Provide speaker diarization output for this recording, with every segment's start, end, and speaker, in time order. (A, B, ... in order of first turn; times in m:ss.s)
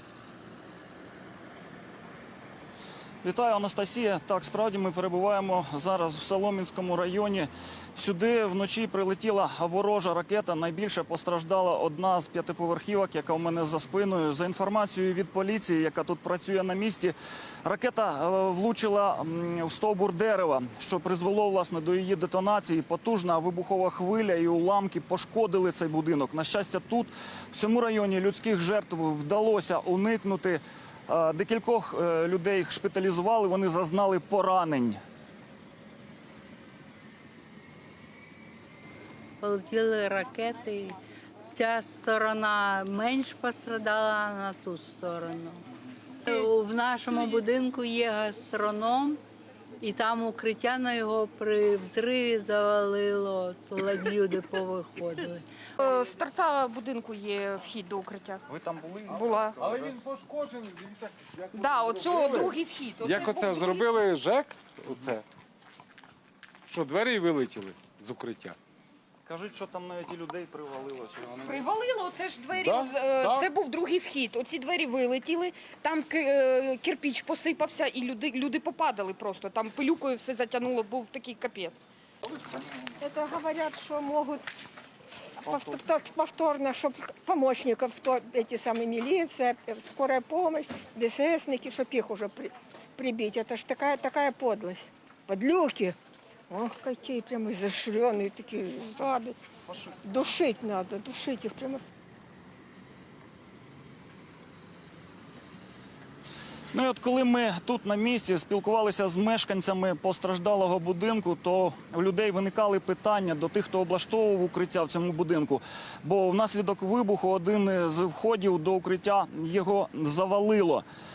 0:03.2-0:35.0 A
0:39.4-0:41.0 B
0:41.6-0:45.6 B
0:46.3-0:49.2 B
0:47.1-0:47.4 C
0:49.8-0:55.4 B
0:55.8-0:58.4 C
0:58.5-0:59.8 A
0:59.2-0:59.6 C
0:59.6-1:00.8 D
1:01.5-1:03.9 C
1:03.1-1:05.2 D
1:06.7-1:08.6 D
1:09.3-1:11.7 A
1:11.5-1:21.9 C
1:12.6-1:13.4 D
1:23.0-1:24.5 E
1:25.4-1:36.0 E
1:36.5-1:39.3 E
1:40.0-1:41.8 E
1:46.7-2:00.8 A